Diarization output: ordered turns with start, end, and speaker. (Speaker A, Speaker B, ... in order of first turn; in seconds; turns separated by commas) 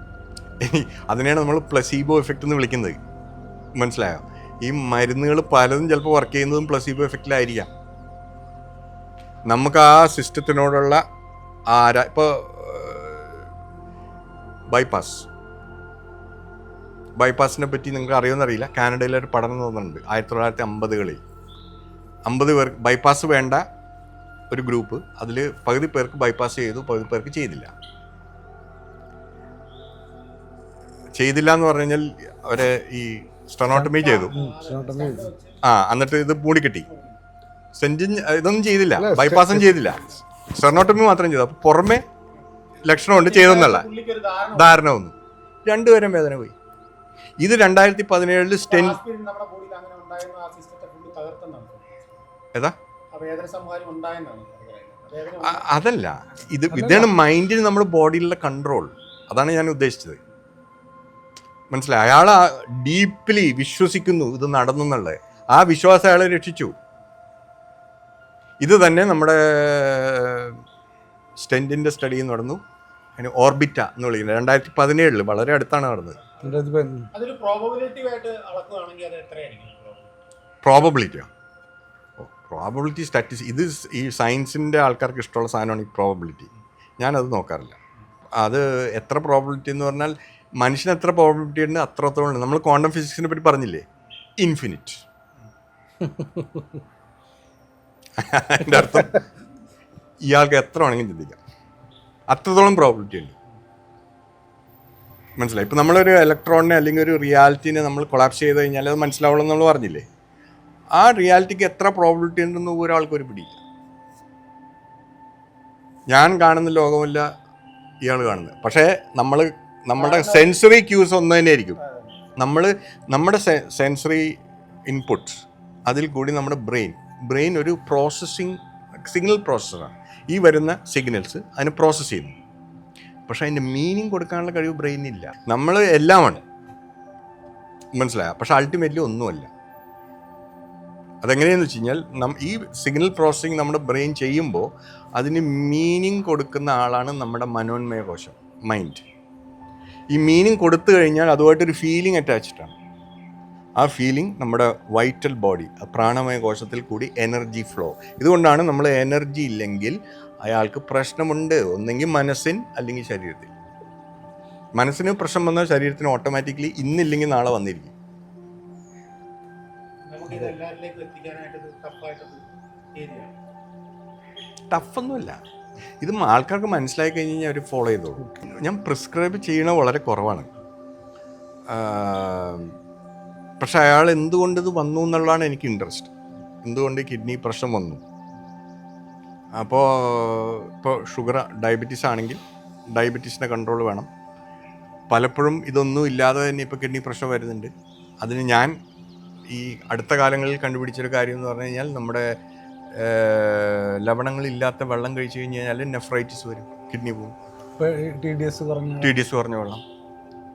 Speaker A: 0.6-3.0, Speaker A: 3.8-7.7, Speaker A: 9.5-11.0, Speaker A: 11.7-13.4, Speaker A: 14.7-15.3, Speaker A: 17.2-21.2, Speaker A: 22.2-23.6, Speaker A: 24.5-27.7, Speaker A: 31.2-34.3, Speaker B: 33.7-35.3, Speaker C: 33.8-35.6, Speaker A: 35.6-36.9, Speaker C: 36.9-37.2, Speaker A: 37.8-42.0, Speaker B: 39.0-39.9, Speaker A: 42.8-43.9, Speaker C: 43.1-44.8, Speaker A: 44.5-46.5, Speaker A: 47.4-49.0, Speaker C: 48.7-52.1, Speaker C: 53.1-55.8, Speaker A: 55.4-60.2, Speaker B: 56.7-57.1, Speaker A: 61.7-66.8, Speaker A: 68.6-70.6, Speaker A: 71.4-72.6, Speaker A: 73.2-76.2, Speaker B: 76.4-77.1, Speaker C: 77.1-80.1, Speaker A: 80.6-81.3, Speaker A: 82.2-87.8, Speaker A: 88.4-93.8, Speaker A: 94.4-95.0, Speaker B: 96.0-96.7, Speaker A: 98.2-99.2, Speaker B: 98.6-99.2, Speaker A: 100.2-101.4, Speaker A: 102.3-103.3, Speaker A: 105.4-110.0, Speaker A: 110.9-113.6, Speaker A: 116.1-117.3, Speaker A: 118.0-121.8, Speaker C: 120.0-120.6, Speaker C: 121.8-122.2, Speaker A: 122.4-132.4, Speaker A: 133.3-136.4, Speaker A: 137.9-139.5, Speaker A: 141.2-149.0, Speaker A: 150.1-152.8, Speaker A: 153.8-163.5, Speaker A: 164.8-167.9, Speaker C: 170.0-173.3, Speaker A: 174.7-175.4, Speaker A: 176.0-180.5, Speaker B: 178.2-178.4, Speaker A: 181.7-182.8, Speaker A: 183.6-188.0, Speaker A: 189.6-192.4, Speaker A: 192.9-194.1, Speaker A: 195.1-198.8, Speaker A: 199.5-202.4, Speaker A: 202.9-207.3, Speaker B: 207.8-209.1, Speaker A: 209.0-209.8